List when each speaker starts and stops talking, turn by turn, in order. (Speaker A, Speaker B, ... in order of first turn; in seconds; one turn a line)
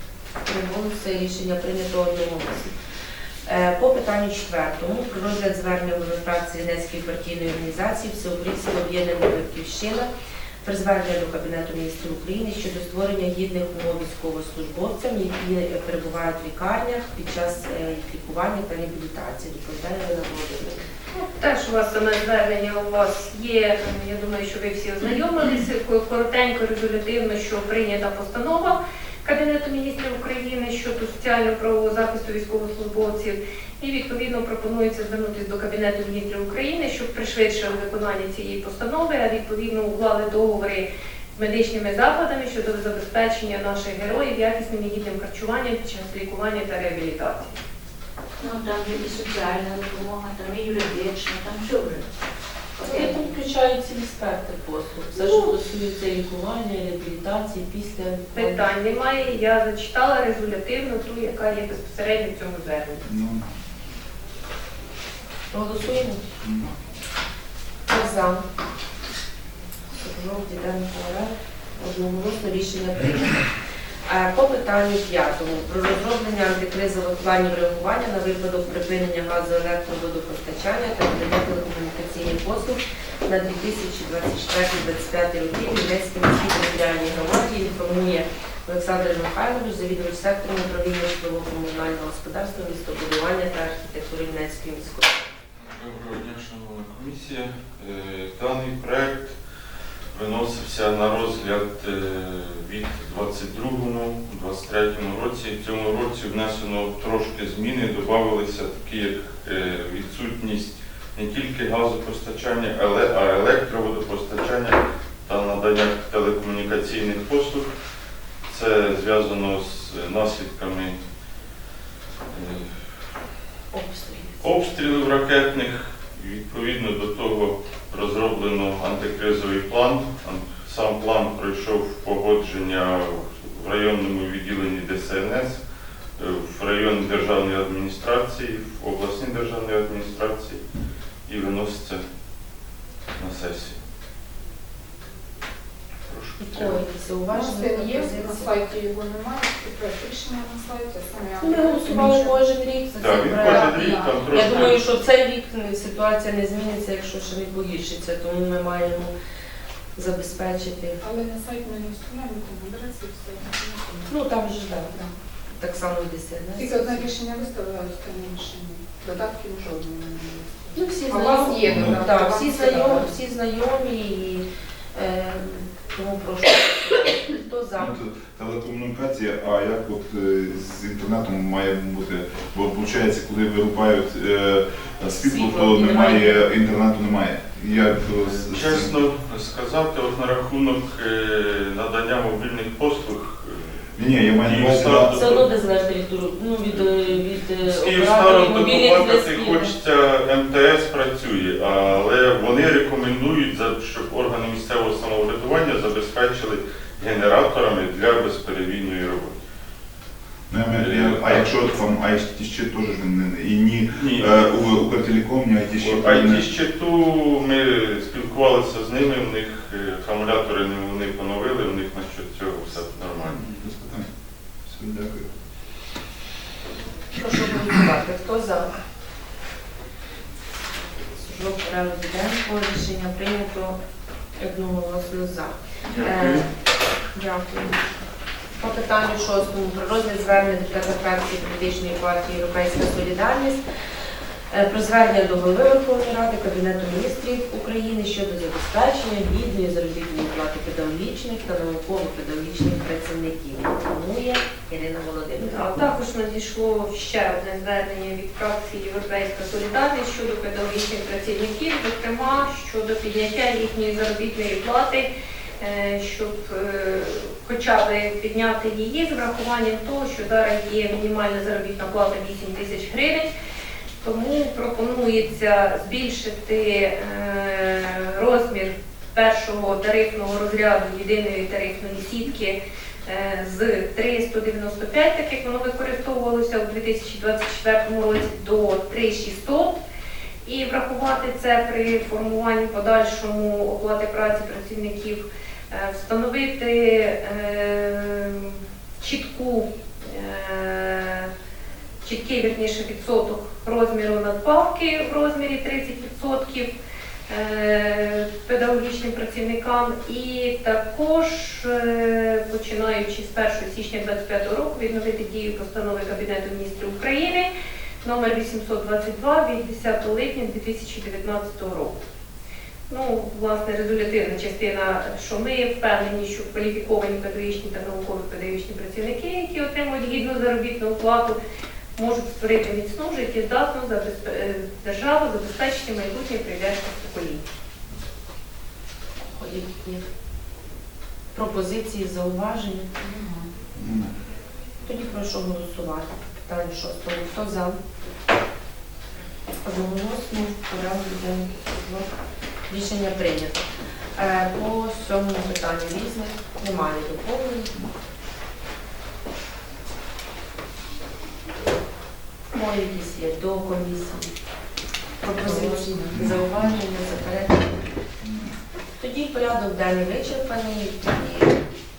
Speaker A: 0.5-2.7
Speaker A: 3.5-10.1
Speaker A: 10.6-20.8
Speaker B: 21.1-47.6
Speaker C: 48.4-52.1
Speaker C: 52.8-53.3
Speaker A: 52.8-58.7
Speaker B: 55.2-55.5
Speaker B: 58.4-63.0
Speaker D: 63.0-63.5
Speaker A: 65.5-66.2
Speaker D: 66.4-66.7
Speaker A: 67.9-68.4
Speaker A: 70.0-73.4
Speaker A: 74.1-95.1
Speaker E: 95.6-99.3
Speaker E: 100.1-117.7
Speaker E: 118.5-121.0
Speaker E: 122.3-122.8
Speaker A: 123.7-124.4
Speaker E: 124.4-135.6
Speaker E: 136.2-140.6
Speaker E: 141.3-142.0
Speaker E: 143.2-143.8
Speaker E: 146.1-146.8
Speaker A: 146.4-148.6
Speaker F: 147.3-152.4
Speaker A: 151.4-159.1
Speaker E: 152.9-154.8
Speaker F: 153.4-154.4
Speaker A: 159.9-161.0
Speaker F: 161.0-164.2
Speaker A: 164.1-164.9
Speaker A: 165.6-167.1
Speaker F: 166.6-173.2
Speaker A: 170.8-177.9
Speaker D: 171.7-172.0
Speaker D: 177.8-188.9
Speaker A: 185.2-186.5
Speaker E: 188.4-195.5
Speaker D: 193.9-195.2
Speaker A: 195.2-199.7
Speaker E: 197.6-209.4
Speaker D: 210.5-216.4
Speaker E: 210.8-211.5
Speaker E: 213.9-214.4
Speaker E: 215.8-223.4
Speaker D: 223.2-224.1
Speaker D: 224.7-225.3
Speaker A: 227.2-228.7
Speaker A: 231.2-233.8
Speaker A: 234.4-236.5
Speaker E: 235.9-236.4
Speaker A: 237.2-237.8
Speaker A: 238.6-243.6
Speaker A: 244.5-255.9
Speaker B: 255.4-273.3
Speaker B: 274.0-289.8
Speaker B: 290.4-301.3
Speaker B: 302.0-306.7
Speaker B: 307.3-322.0
Speaker B: 322.9-331.4
Speaker B: 331.9-337.4
Speaker A: 339.3-340.0
Speaker A: 341.3-342.9
Speaker F: 343.0-343.5
Speaker D: 343.8-344.1
Speaker A: 344.8-347.8
Speaker A: 349.6-352.1
Speaker A: 352.7-353.6
Speaker A: 354.2-357.8
Speaker A: 362.5-364.3
Speaker A: 365.2-367.8
Speaker F: 365.6-366.0
Speaker D: 368.2-368.5
Speaker A: 369.0-371.6